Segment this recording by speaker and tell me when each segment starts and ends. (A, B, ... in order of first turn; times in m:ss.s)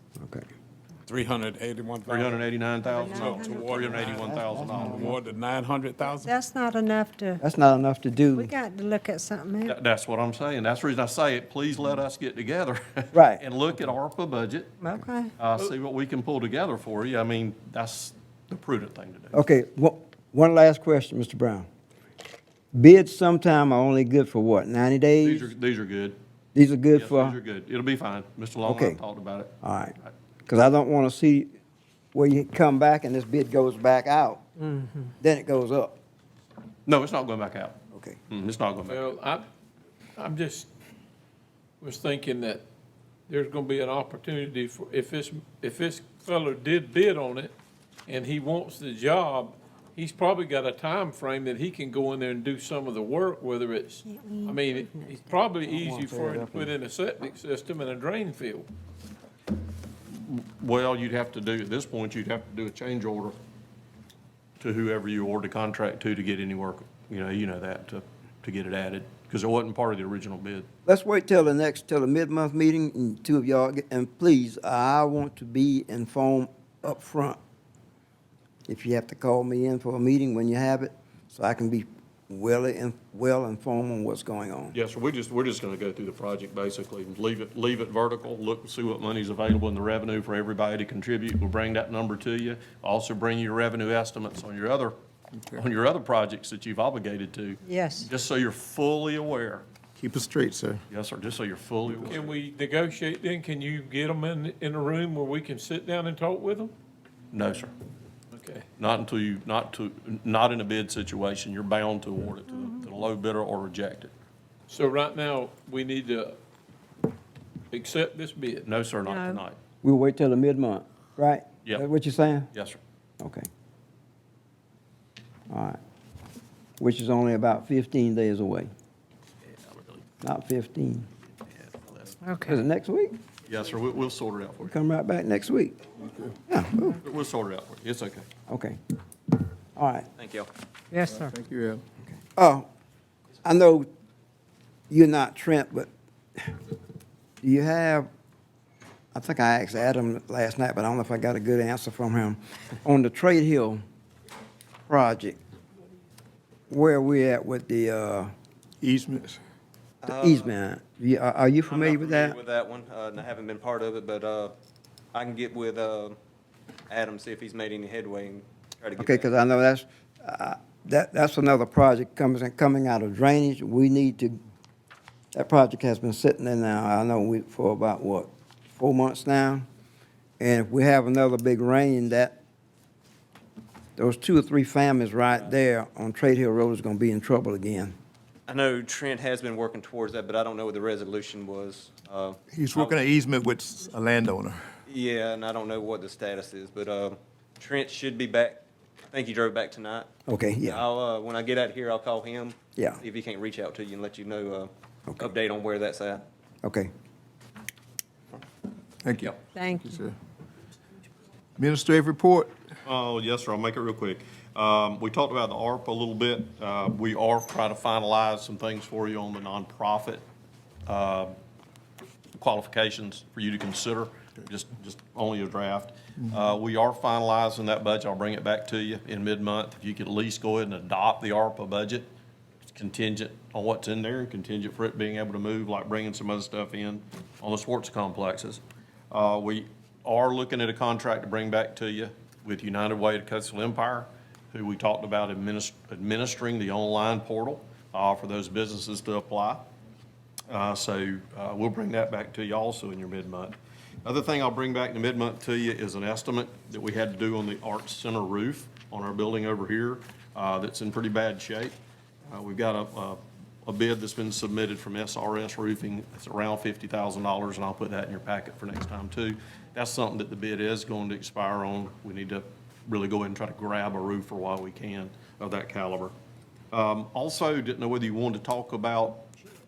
0:00.2-0:00.4 A
0:01.1-0:02.5 B
0:02.1-0:05.1 C
0:02.8-0:04.0 D
0:03.2-0:06.3 B
0:04.0-0:05.1 A
0:06.0-0:07.4 D
0:07.4-0:08.5 A
0:08.3-0:09.8 D
0:09.6-0:14.7 C
0:13.1-0:13.4 A
0:14.8-0:15.3 D
0:15.4-0:19.4 C
0:19.3-0:21.6 A
0:22.7-0:25.5 A
0:25.2-0:26.2 C
0:26.5-0:27.4 A
0:27.0-0:30.1 C
0:28.6-0:29.0 A
0:29.6-0:29.9 A
0:30.5-0:31.5 A
0:32.1-0:35.9 A
0:36.8-0:37.8 C
0:37.9-0:38.2 A
0:38.3-0:39.1 C
0:38.9-0:39.4 E
0:40.2-0:40.7 E
0:41.8-0:42.6 E
0:43.3-0:47.5 E
0:48.1-0:58.7 E
0:54.0-0:55.2 D
0:55.6-0:56.7 A
1:00.1-1:03.4 C
1:04.6-1:10.6 C
1:10.8-1:17.4 A
1:18.7-1:24.7 A
1:24.7-1:34.9 C
1:35.5-1:39.6 C
1:37.6-1:38.1 D
1:40.0-1:40.8 F
1:40.9-1:42.3 C
1:42.0-1:46.7 E
1:47.3-1:47.7 C
1:48.3-1:48.6 E
1:48.8-1:54.1 C
1:54.7-1:56.4 E
1:57.7-1:58.6 E
1:58.6-1:59.6 C
1:59.0-1:59.4 D
1:59.8-2:02.5 A
2:02.5-2:02.8 C
2:03.2-2:03.5 A
2:05.5-2:05.8 A
2:06.8-2:08.7 A
2:09.7-2:10.0 C
2:10.2-2:11.0 A
2:11.6-2:12.1 C
2:12.2-2:12.6 D
2:12.4-2:13.1 A
2:13.5-2:14.7 C
2:14.6-2:15.8 A
2:16.5-2:17.0 A
2:16.9-2:18.2 C
2:18.5-2:18.8 A
2:19.8-2:20.1 A
2:20.2-2:20.5 G
2:20.9-2:21.3 D
2:21.2-2:21.8 F
2:22.2-2:22.6 A
2:23.4-2:23.9 A
2:24.9-2:26.5 A
2:27.4-2:28.1 A
2:29.1-2:33.8 A
2:34.9-2:35.4 A
2:36.7-2:38.3 A
2:38.8-2:39.4 F
2:40.0-2:40.5 G
2:40.0-2:42.4 A
2:41.7-2:44.5 G
2:45.1-2:46.2 G
2:46.9-2:49.3 G
2:49.0-2:54.4 A
2:55.3-2:59.6 A
3:00.4-3:02.4 A
3:04.0-3:07.9 A
3:08.5-3:13.0 G
3:12.5-3:14.7 F
3:14.9-3:20.1 G
3:20.3-3:20.8 A
3:20.7-3:26.2 G
3:26.6-3:26.9 A
3:29.0-3:30.2 F
3:29.5-3:30.0 D
3:31.6-3:32.5 F
3:32.8-3:40.2 C
3:40.9-3:41.3 C
3:42.4-3:52.1 C
3:52.7-4:09.7 C
4:10.5-4:21.7 C
4:22.3-4:36.1 C
4:36.7-4:39.2 C